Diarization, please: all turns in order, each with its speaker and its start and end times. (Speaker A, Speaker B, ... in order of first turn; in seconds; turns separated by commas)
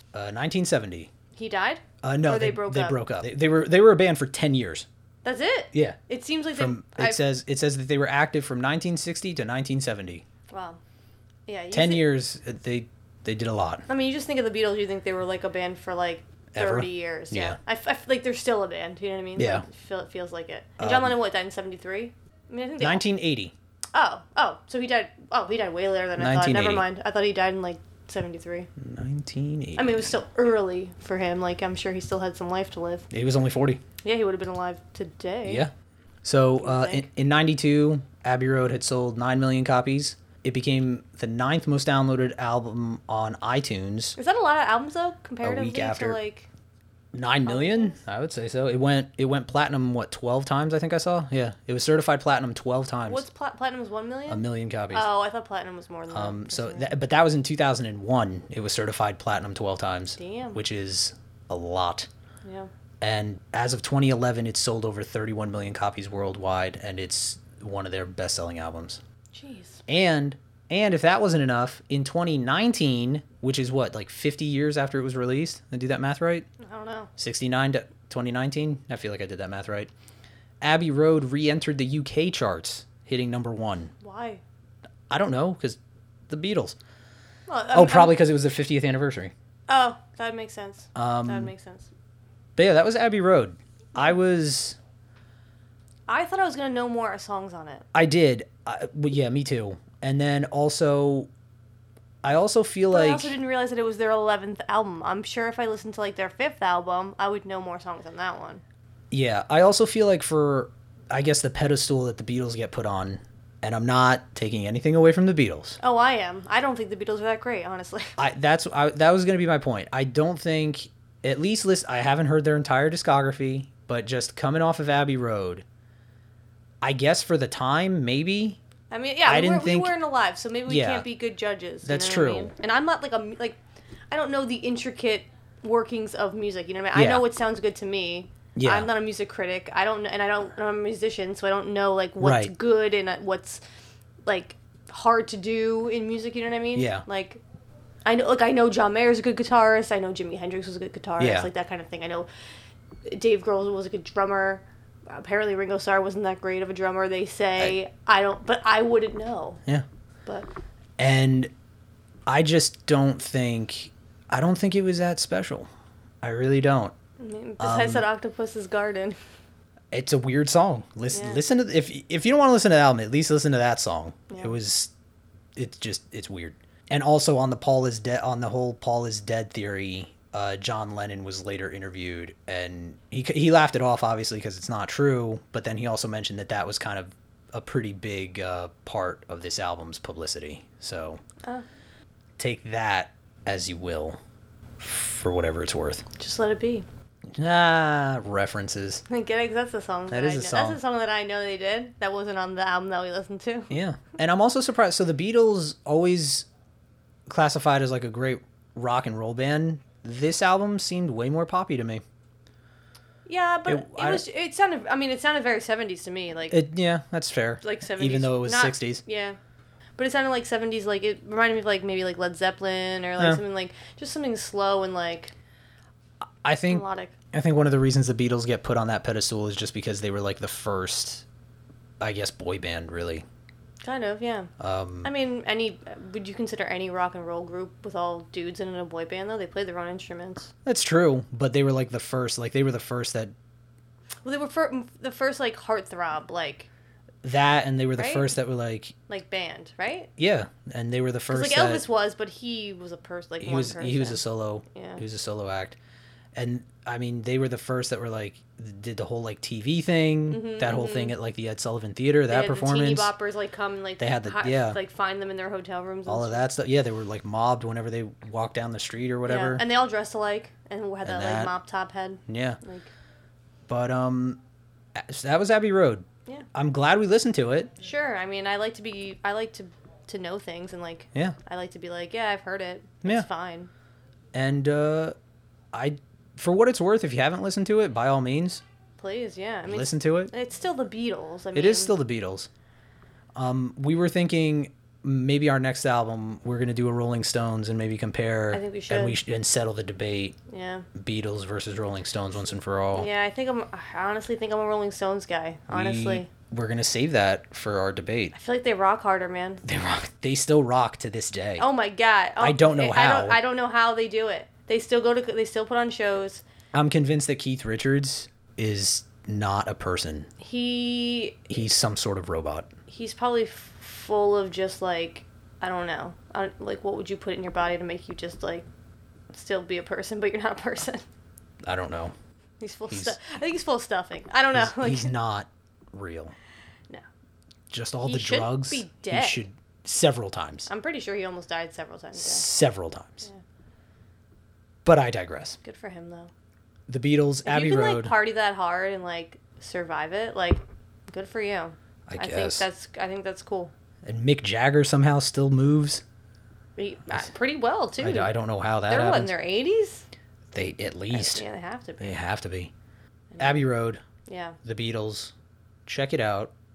Speaker A: 0.1-1.1, Speaker B: 1.3-3.0, Speaker A: 2.0-4.9, Speaker B: 5.2-7.2, Speaker A: 5.7-6.0, Speaker A: 6.5-10.2, Speaker B: 10.5-10.8, Speaker B: 11.5-12.1, Speaker A: 11.7-13.8, Speaker B: 13.9-23.0, Speaker A: 16.5-17.6, Speaker A: 19.4-19.6, Speaker A: 20.8-21.1, Speaker A: 22.8-23.5, Speaker B: 23.9-28.7, Speaker A: 26.2-26.9, Speaker A: 28.8-30.2, Speaker B: 29.8-33.1, Speaker A: 33.1-33.8, Speaker B: 34.0-35.6, Speaker A: 35.4-35.7, Speaker A: 36.2-44.2, Speaker B: 36.6-37.1, Speaker B: 44.2-46.5, Speaker A: 45.4-46.2, Speaker A: 47.1-53.2, Speaker B: 47.4-48.0, Speaker B: 53.0-56.9, Speaker A: 54.3-55.1, Speaker A: 56.1-62.1, Speaker B: 60.2-60.6, Speaker B: 62.4-62.7, Speaker A: 63.0-69.0, Speaker B: 69.3-69.8, Speaker A: 69.9-76.5, Speaker B: 76.6-77.1, Speaker A: 77.2-79.9, Speaker A: 80.6-83.9, Speaker B: 84.0-84.4, Speaker A: 85.1-86.8, Speaker B: 87.5-88.2, Speaker A: 87.7-89.3, Speaker B: 89.7-91.9, Speaker A: 90.9-91.5, Speaker A: 92.5-94.8, Speaker B: 96.1-97.8, Speaker A: 97.9-101.3, Speaker A: 102.2-103.4, Speaker B: 102.9-108.6, Speaker A: 109.1-115.8, Speaker B: 115.8-118.2, Speaker A: 118.2-125.6, Speaker A: 126.8-128.6, Speaker B: 128.9-133.6, Speaker A: 129.2-129.9, Speaker A: 130.7-131.1, Speaker A: 131.8-132.5, Speaker B: 134.1-143.6, Speaker A: 136.9-137.2, Speaker A: 138.6-138.9, Speaker A: 142.2-142.5, Speaker B: 144.2-147.4, Speaker A: 146.8-147.0, Speaker B: 148.1-152.3, Speaker A: 151.2-151.5, Speaker B: 153.0-159.6, Speaker A: 161.0-161.5, Speaker A: 162.3-165.7, Speaker A: 166.2-166.9, Speaker B: 167.2-169.2, Speaker A: 167.6-168.1, Speaker A: 169.9-174.9, Speaker B: 171.1-171.4, Speaker B: 174.3-174.6, Speaker A: 175.6-191.2, Speaker A: 192.4-194.2, Speaker A: 194.8-196.1, Speaker B: 196.2-196.9, Speaker A: 197.3-199.0, Speaker B: 199.1-203.7, Speaker A: 200.1-200.8, Speaker A: 203.7-206.5, Speaker A: 207.3-212.0, Speaker B: 213.2-216.6, Speaker A: 213.7-214.2, Speaker A: 216.5-219.0, Speaker B: 217.6-219.4, Speaker B: 220.0-225.3, Speaker A: 226.4-231.2, Speaker B: 226.7-227.1, Speaker A: 232.0-233.2, Speaker B: 233.8-234.5, Speaker A: 234.6-235.1, Speaker B: 235.0-240.5, Speaker A: 240.6-243.3, Speaker B: 244.2-246.7, Speaker A: 247.2-248.9, Speaker B: 248.0-248.3, Speaker B: 249.1-250.1, Speaker A: 250.2-251.8, Speaker B: 251.3-255.0, Speaker A: 253.4-255.8, Speaker A: 256.4-263.1, Speaker B: 260.3-261.1, Speaker B: 262.3-266.4, Speaker A: 264.0-264.8, Speaker A: 266.1-269.6, Speaker B: 269.2-272.9, Speaker A: 271.0-271.5, Speaker A: 272.3-272.6, Speaker A: 273.7-274.4, Speaker A: 274.9-277.7, Speaker B: 277.8-283.7, Speaker A: 284.3-285.1, Speaker A: 285.7-288.6, Speaker B: 289.0-291.9, Speaker A: 289.7-290.3, Speaker A: 291.5-292.5, Speaker A: 293.4-300.4, Speaker B: 298.5-299.2, Speaker B: 300.5-300.9, Speaker A: 300.9-303.1, Speaker B: 302.9-306.3, Speaker A: 305.7-308.4, Speaker B: 308.3-309.6, Speaker A: 309.6-311.6, Speaker B: 311.6-316.4, Speaker A: 312.4-313.4, Speaker A: 316.7-320.3, Speaker B: 320.4-321.5, Speaker A: 321.5-322.7, Speaker B: 322.9-328.6, Speaker B: 329.3-331.0, Speaker A: 331.6-332.1, Speaker B: 332.6-335.1, Speaker A: 332.9-333.2, Speaker A: 334.5-336.4, Speaker A: 337.7-340.7, Speaker B: 338.0-339.4, Speaker B: 340.7-342.4, Speaker A: 342.1-343.3, Speaker A: 344.9-345.6, Speaker B: 345.6-346.3, Speaker A: 346.9-348.1, Speaker B: 347.4-353.7, Speaker A: 352.1-352.6, Speaker A: 354.0-356.0, Speaker B: 356.8-358.3, Speaker A: 358.0-359.3, Speaker B: 358.9-360.1, Speaker A: 360.5-361.4, Speaker B: 361.1-362.1, Speaker A: 362.0-362.7, Speaker B: 363.3-363.7, Speaker A: 363.4-364.0, Speaker B: 364.2-364.6, Speaker A: 364.6-365.3, Speaker A: 365.9-366.5